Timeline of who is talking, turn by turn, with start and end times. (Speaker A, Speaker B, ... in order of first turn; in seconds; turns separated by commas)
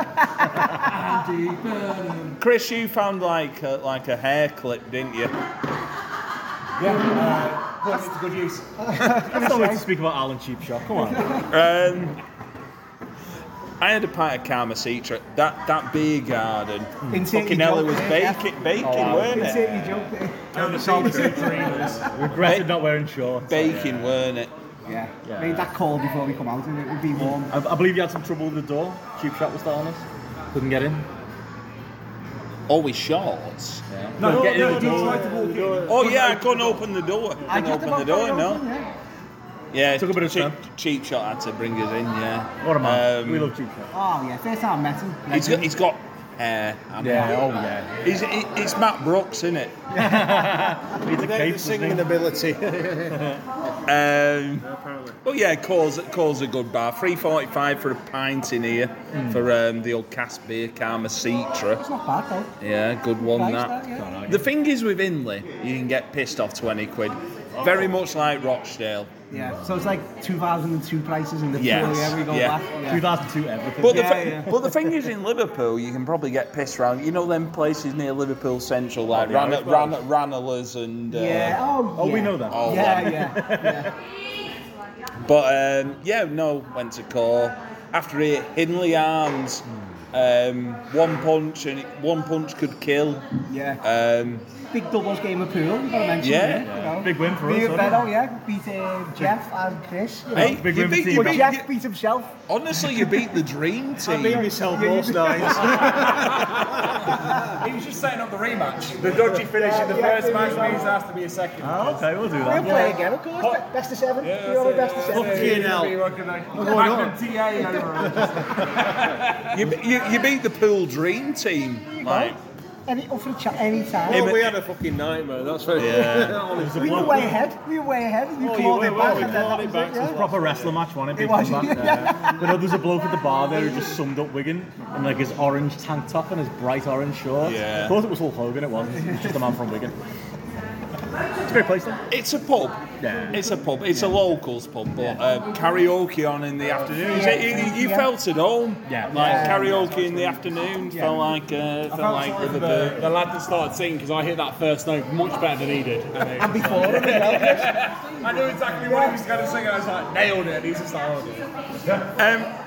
Speaker A: 0.2-0.9, Speaker B: 0.8-2.4, Speaker C: 2.4-5.3, Speaker B: 6.8-9.0, Speaker A: 8.8-9.9, Speaker D: 9.1-11.3, Speaker A: 10.9-11.5, Speaker C: 11.5-12.2, Speaker C: 13.8-19.8, Speaker A: 17.1-22.0, Speaker D: 18.8-20.1, Speaker B: 20.5-22.1, Speaker E: 20.5-22.2, Speaker D: 22.1-24.2, Speaker C: 22.4-22.7, Speaker C: 23.4-24.5, Speaker A: 24.9-27.5, Speaker D: 25.2-25.7, Speaker D: 27.1-31.1, Speaker C: 32.7-33.8, Speaker D: 33.9-35.9, Speaker B: 34.2-36.8, Speaker E: 34.3-35.9, Speaker C: 35.9-38.6, Speaker A: 37.5-38.9, Speaker C: 39.7-43.5, Speaker D: 40.0-40.6, Speaker D: 42.6-43.9, Speaker A: 43.9-45.8, Speaker C: 45.3-49.7, Speaker D: 47.0-48.1, Speaker D: 49.9-52.1, Speaker A: 50.0-50.8, Speaker E: 51.0-53.3, Speaker D: 53.1-53.4, Speaker C: 53.9-54.7, Speaker E: 54.6-55.2, Speaker C: 55.2-61.8, Speaker D: 59.1-59.5, Speaker A: 61.7-62.6, Speaker C: 62.6-63.8, Speaker A: 63.3-64.1, Speaker D: 64.0-64.5, Speaker C: 64.3-69.1, Speaker A: 69.3-73.2, Speaker D: 69.3-69.6, Speaker C: 71.5-72.6, Speaker D: 72.9-74.6, Speaker A: 73.8-74.7, Speaker C: 73.8-81.7, Speaker D: 79.1-80.0, Speaker A: 81.1-83.9, Speaker D: 81.9-83.9, Speaker C: 82.5-83.4, Speaker C: 85.2-93.2, Speaker A: 93.5-93.8, Speaker C: 93.8-94.5, Speaker A: 94.7-103.4, Speaker C: 96.2-96.7, Speaker D: 96.6-98.1, Speaker D: 100.3-101.5, Speaker C: 100.3-101.7, Speaker C: 102.5-104.5, Speaker E: 104.0-106.9, Speaker A: 104.3-106.4, Speaker B: 106.3-113.7, Speaker A: 107.1-107.5, Speaker A: 109.5-111.0, Speaker D: 111.6-112.9, Speaker A: 112.4-115.9, Speaker B: 114.2-119.5, Speaker E: 115.1-117.3, Speaker A: 117.5-118.8, Speaker C: 119.5-122.4, Speaker A: 122.0-124.3, Speaker E: 124.0-127.4, Speaker C: 124.1-124.6, Speaker C: 125.8-126.5, Speaker D: 126.6-127.4, Speaker A: 126.7-130.2, Speaker E: 128.4-130.9, Speaker D: 128.4-140.0, Speaker A: 131.2-132.7, Speaker C: 137.4-138.0, Speaker A: 138.9-139.4, Speaker D: 141.4-142.0, Speaker C: 142.1-153.1, Speaker D: 143.0-143.4, Speaker D: 143.9-144.2, Speaker A: 147.0-148.1, Speaker D: 148.9-149.7, Speaker A: 149.1-150.0, Speaker A: 150.8-151.3, Speaker B: 151.9-162.1, Speaker A: 156.4-157.8, Speaker A: 158.8-159.2, Speaker C: 162.2-162.5